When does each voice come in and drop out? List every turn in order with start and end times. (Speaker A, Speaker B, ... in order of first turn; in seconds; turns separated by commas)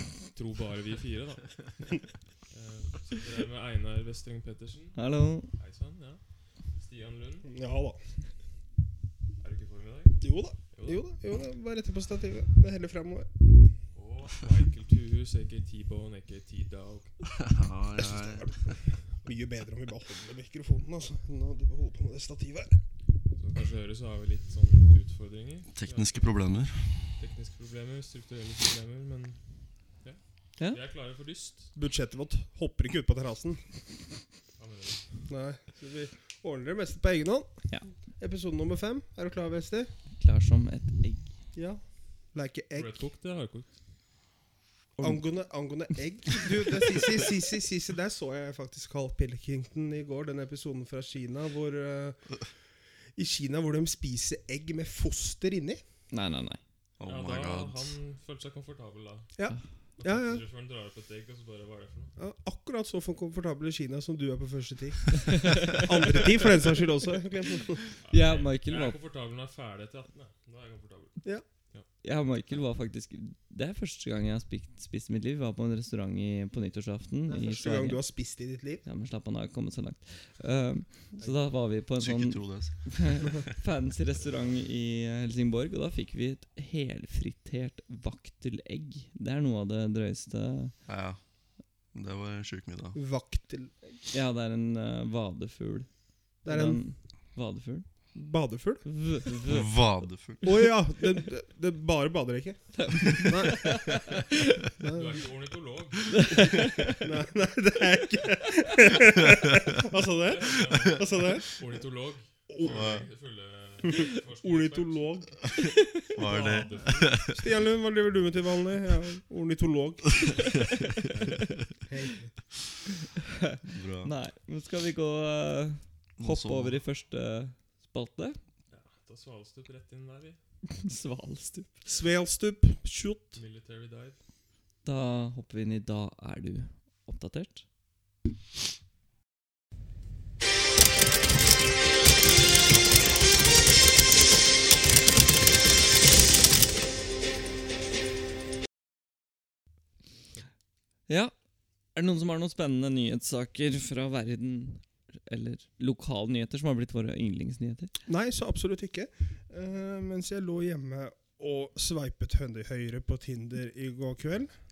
Speaker A: 0.2-5.0, Speaker B: 5.0-5.5, Speaker A: 5.5-6.2, Speaker A: 6.8-7.5, Speaker C: 7.5-8.0, Speaker A: 9.4-10.2, Speaker C: 10.2-13.3, Speaker A: 10.7-11.0, Speaker A: 13.9-17.2, Speaker D: 17.4-18.5, Speaker C: 17.9-22.8, Speaker A: 23.3-26.4, Speaker D: 25.7-26.8, Speaker A: 27.2-29.4, Speaker A: 30.0-31.7, Speaker C: 31.8-33.6, Speaker A: 34.6-35.0, Speaker C: 35.3-37.5, Speaker C: 38.2-39.9, Speaker B: 40.2-41.3, Speaker C: 41.5-41.8, Speaker C: 42.3-43.0, Speaker A: 42.8-43.7, Speaker B: 45.0-45.2, Speaker C: 45.0-52.2, Speaker C: 53.1-55.8, Speaker B: 56.1-56.6, Speaker D: 57.0-57.9, Speaker A: 57.0-59.3, Speaker C: 59.4-60.4, Speaker A: 60.0-62.1, Speaker C: 62.2-67.9, Speaker B: 65.3-65.8, Speaker A: 65.5-66.5, Speaker A: 68.0-71.9, Speaker B: 68.1-69.0, Speaker B: 72.0-78.0, Speaker C: 77.3-78.8, Speaker B: 78.8-90.7, Speaker D: 82.0-83.4, Speaker D: 90.9-91.2, Speaker D: 91.9-93.0, Speaker C: 92.9-93.7, Speaker B: 94.1-95.9, Speaker C: 96.4-96.8, Speaker B: 96.5-97.8, Speaker C: 98.1-98.8, Speaker B: 98.8-99.7, Speaker D: 99.4-100.5, Speaker C: 100.4-104.0, Speaker B: 102.7-104.6, Speaker C: 104.8-105.2, Speaker A: 104.9-106.5, Speaker B: 106.1-107.0, Speaker C: 107.0-111.5, Speaker A: 110.2-115.2, Speaker C: 112.5-112.8, Speaker D: 112.6-113.0, Speaker C: 113.8-115.3, Speaker B: 115.6-116.1, Speaker D: 116.1-117.3, Speaker A: 116.2-117.2, Speaker C: 117.3-120.3, Speaker B: 120.8-121.4, Speaker A: 121.1-121.4, Speaker C: 121.9-122.3, Speaker B: 123.2-128.4, Speaker D: 123.6-124.1, Speaker D: 126.2-126.8, Speaker A: 128.7-130.4, Speaker B: 130.7-131.8, Speaker C: 131.8-133.4, Speaker A: 133.3-134.2, Speaker B: 134.8-137.6, Speaker B: 151.1-151.3, Speaker B: 151.9-157.9, Speaker C: 158.1-164.5